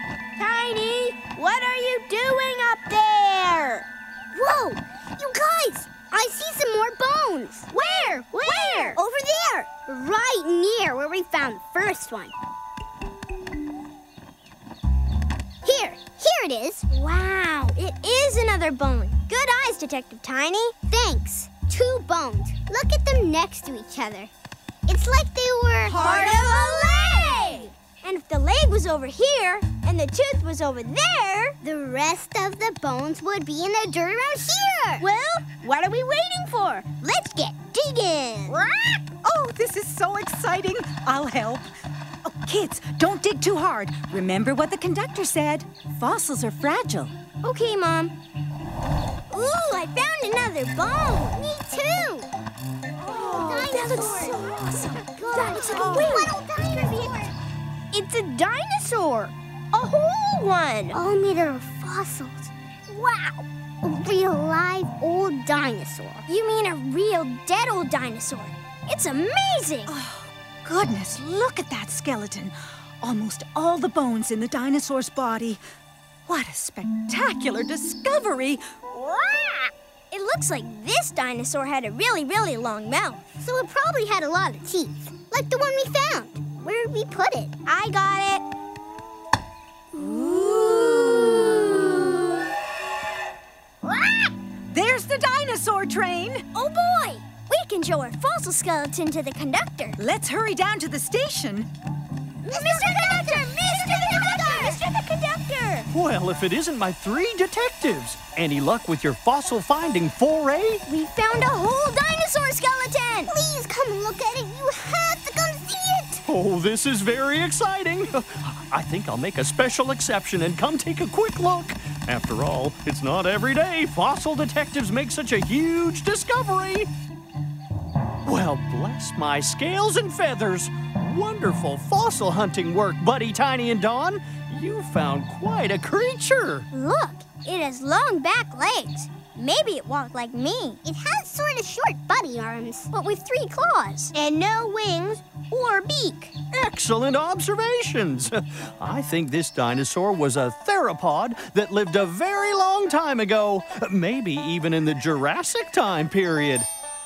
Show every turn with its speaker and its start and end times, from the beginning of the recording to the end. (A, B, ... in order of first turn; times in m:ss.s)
0:00.4-0:03.8 A
0:04.3-0:07.7 B
0:07.7-0:09.0 A
0:08.4-0:12.3 B
0:15.6-0:16.9 B
0:16.9-0:20.7 A
0:20.9-0:24.3 B
0:24.8-0:27.5 B
0:25.8-0:31.6 A
0:31.6-0:35.0 B
0:35.0-0:38.6 A
0:38.6-0:39.0 B
0:39.2-0:41.7 C
0:42.2-0:47.1 C
0:47.4-0:48.1 A
0:49.3-0:51.4 A
0:51.4-0:52.3 B
0:53.0-0:57.2 A
0:53.1-0:57.3 B
0:57.9-1:01.0 A
1:00.9-1:02.5 B
1:02.9-1:03.4 A
1:03.8-1:06.2 B
1:06.3-1:09.9 A
1:09.9-1:15.6 C
1:16.3-1:18.6 C
1:18.9-1:19.7 B
1:20.1-1:23.2 A
1:23.4-1:27.5 B
1:27.6-1:28.4 A
1:30.0-1:31.8 C
1:30.0-1:32.3 A
1:33.8-1:34.3 B
1:34.7-1:36.4 C
1:36.5-1:40.0 A
1:40.0-1:41.7 C
1:42.4-1:45.9 A
1:42.5-1:44.8 B
1:45.9-1:50.8 D
1:50.9-1:53.3 A
1:53.3-1:56.2 B
1:56.3-2:06.9 D
2:08.2-2:16.7 D
2:16.7-2:20.8 A
2:20.8-2:22.9 B
2:22.9-2:26.3 A
2:26.5-2:36.7 D